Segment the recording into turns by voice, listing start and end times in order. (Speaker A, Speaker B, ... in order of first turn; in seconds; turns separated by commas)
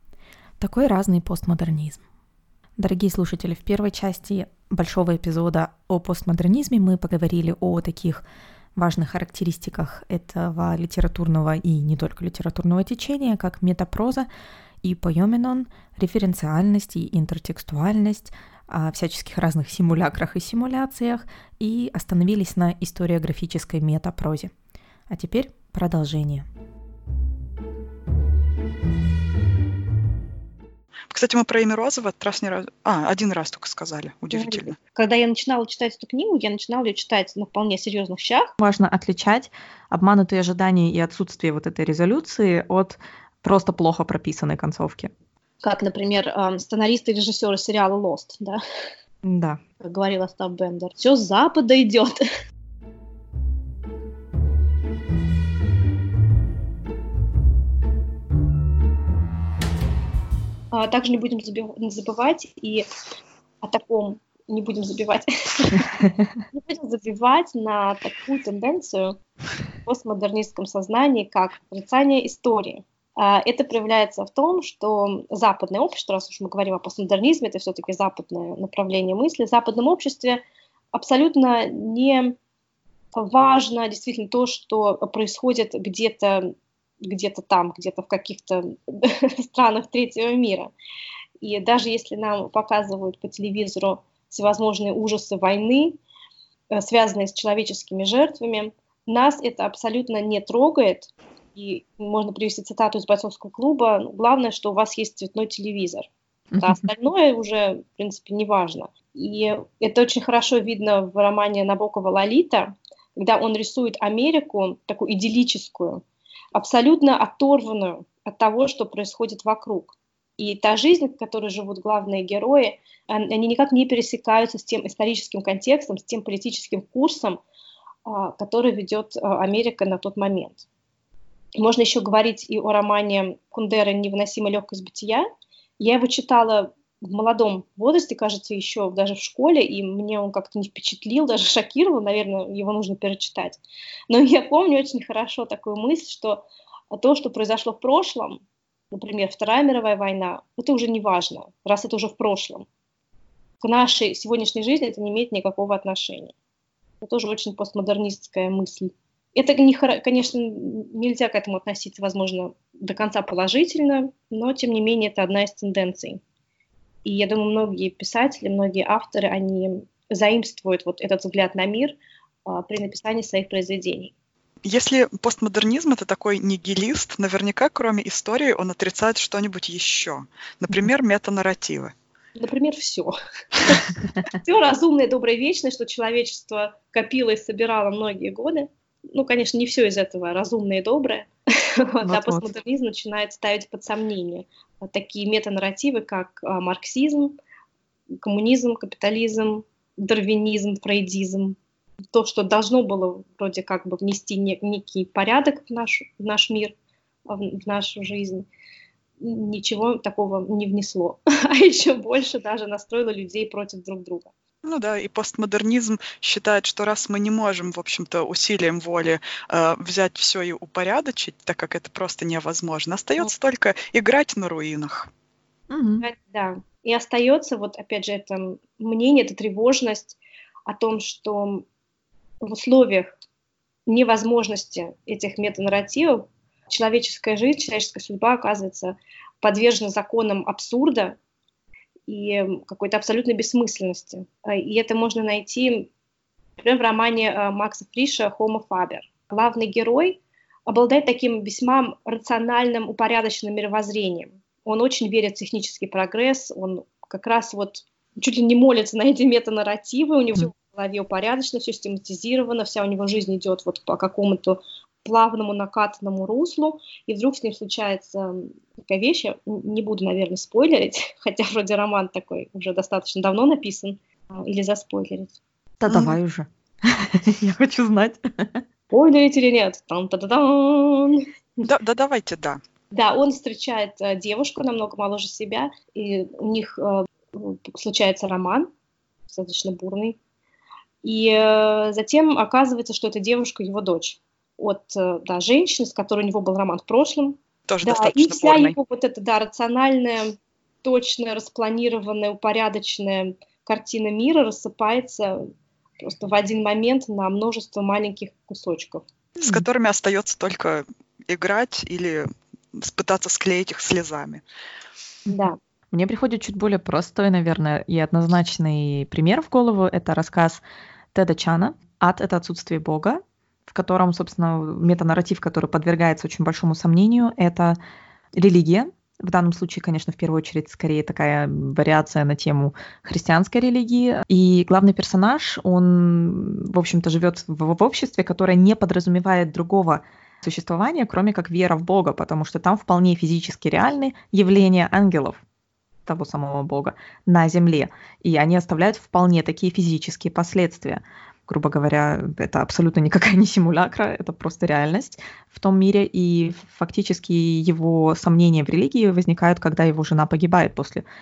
Speaker A: 0.6-2.0, Speaker A: 2.8-14.3, Speaker A: 14.8-24.5, Speaker A: 25.1-26.4, Speaker B: 31.1-34.7, Speaker C: 34.3-38.5, Speaker A: 38.6-45.1, Speaker C: 45.6-48.6, Speaker A: 49.2-49.6, Speaker C: 49.8-52.2, Speaker C: 60.7-62.9, Speaker C: 63.6-65.9, Speaker C: 66.5-69.2, Speaker C: 69.8-80.4, Speaker C: 80.9-82.4, Speaker C: 83.1-90.7, Speaker C: 91.4-96.0, Speaker C: 96.7-116.0, Speaker A: 106.5-106.8, Speaker C: 116.5-127.4, Speaker C: 128.0-130.6, Speaker C: 131.6-135.3, Speaker C: 135.8-148.4, Speaker C: 148.9-152.7, Speaker C: 153.6-156.3, Speaker C: 157.0-166.2, Speaker C: 167.0-174.1, Speaker B: 174.6-181.9, Speaker C: 182.3-197.4, Speaker A: 192.1-192.5, Speaker C: 198.2-201.6, Speaker C: 202.1-206.8, Speaker C: 207.3-208.5, Speaker C: 209.2-214.3, Speaker B: 214.6-225.1, Speaker A: 225.7-226.1, Speaker C: 226.0-231.7, Speaker C: 232.4-233.2, Speaker C: 233.9-241.2, Speaker C: 242.1-245.9, Speaker C: 246.6-275.3, Speaker A: 275.8-278.6, Speaker B: 275.9-276.1, Speaker C: 278.9-281.3, Speaker B: 281.6-282.6, Speaker C: 282.9-288.7, Speaker C: 289.3-290.2, Speaker C: 291.0-309.0, Speaker B: 297.7-298.8, Speaker B: 309.4-314.4, Speaker C: 315.3-315.6, Speaker A: 315.9-320.6, Speaker A: 321.1-327.8, Speaker A: 328.3-345.4, Speaker A: 346.1-361.0